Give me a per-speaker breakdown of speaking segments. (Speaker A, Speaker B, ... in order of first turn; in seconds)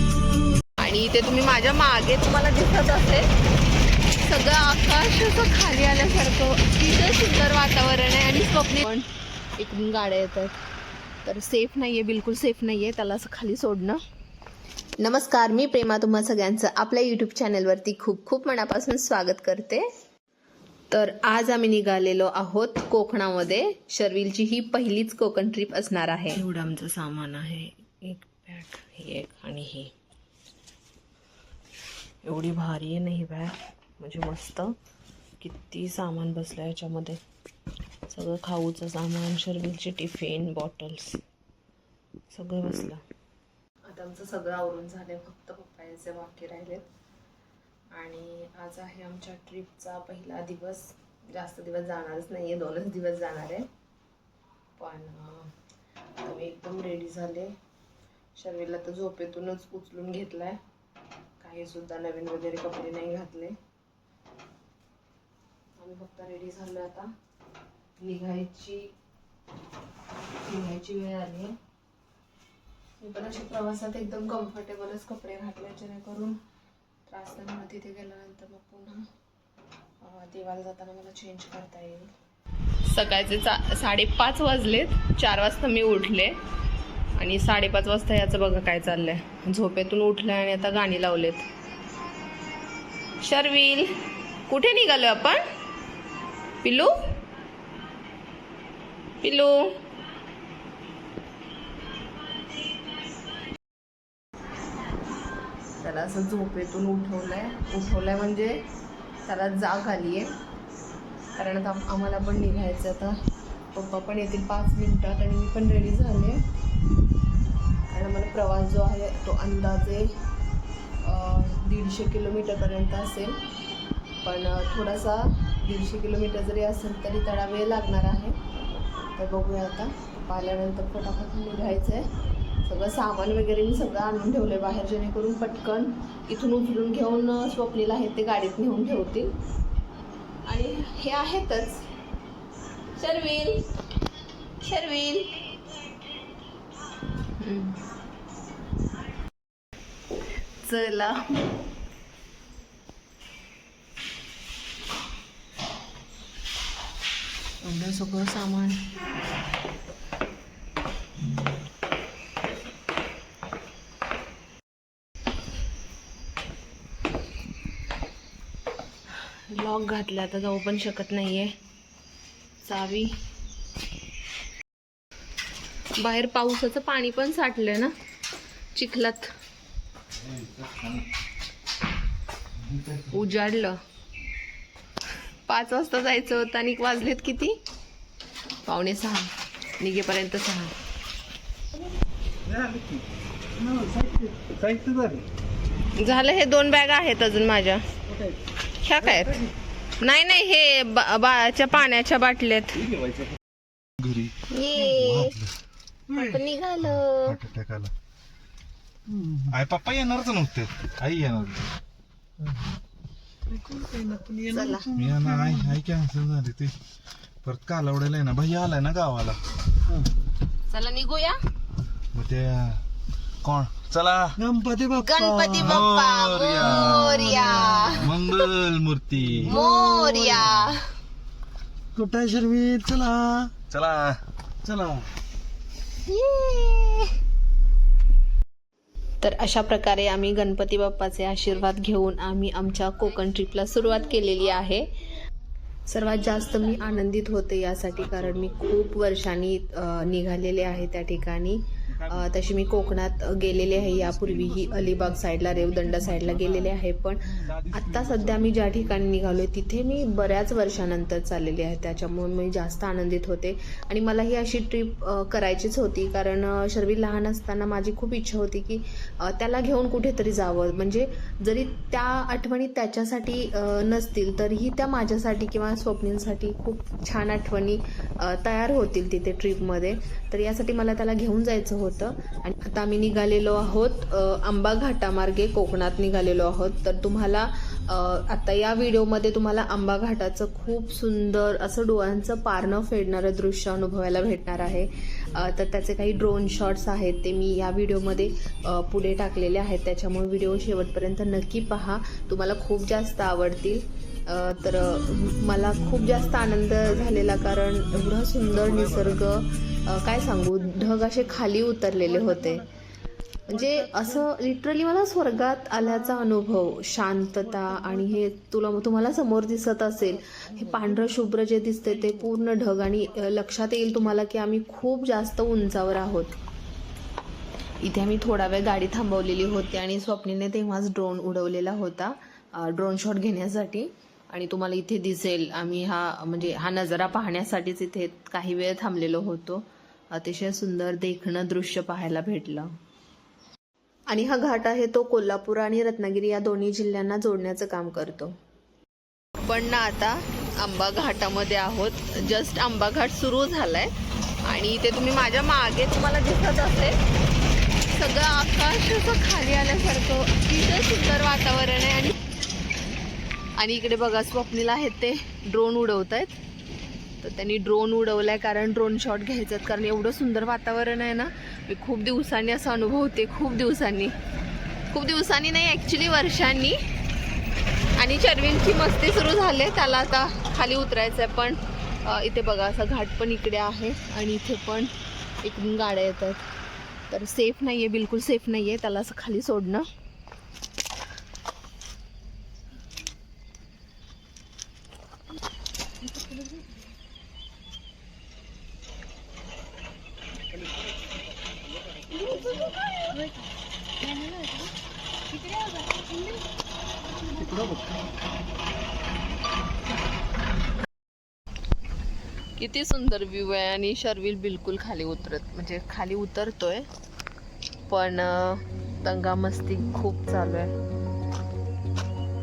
Speaker A: 0.8-3.3, 4.2-9.1, 9.6-10.6, 11.2-14.0, 15.0-19.8, 20.9-29.9, 32.2-34.8, 35.4-37.2, 38.1-41.2, 42.3-43.0, 43.9-46.9, 47.9-53.7, 54.8-55.5, 56.2-57.5, 58.4-60.6, 61.4-63.6, 65.8-67.1, 68.0-68.9, 70.4-71.6, 73.0-76.4, 77.1-79.0, 80.0-82.1, 82.8-86.4, 87.2-91.5, 93.2-95.4, 96.6-96.9, 99.2-99.8, 105.8-108.6, 109.2-110.3, 111.4-113.2, 113.7-116.4, 117.9-120.1, 121.0-123.4, 124.2-128.4, 129.2-132.1, 132.6-139.3, 140.5-141.8, 143.0-143.7, 144.6-145.4, 147.4-147.8, 150.6-151.4, 157.6-158.9, 169.5-171.5, 172.6-173.2, 175.9-177.9, 178.7-179.3, 183.1-183.8, 185.5-187.6, 188.7-190.7, 195.9-197.8, 198.8-199.4, 200.0-202.8, 204.5-205.4, 206.1-207.4, 214.5-214.9, 220.7-221.4, 225.0-228.5, 229.4-230.9, 236.1-237.1, 239.2-244.9, 245.9-312.7, 313.5-326.4, 327.8-342.7, 344.1-348.3, 349.4-353.9, 354.4-357.0, 357.9-362.2, 363.6-366.4, 367.2-374.1, 374.9-376.8, 378.0-384.9, 385.4-386.4, 387.1-389.9, 412.6-416.9, 417.9-420.7
Speaker B: 180.3-181.0, 182.7-183.1, 192.5-193.0, 194.5-195.2, 204.0-205.5, 206.8-207.9, 209.5-211.7, 214.9-216.7, 217.4-219.4, 222.1-222.8, 223.4-224.4, 225.5-229.6, 230.4-230.8, 233.7-235.1, 308.6-309.2, 407.5-407.8
Speaker C: 193.7-194.3, 213.6-215.5, 224.4-225.7, 229.8-230.2, 231.9-233.5, 404.1-404.7, 405.5-406.4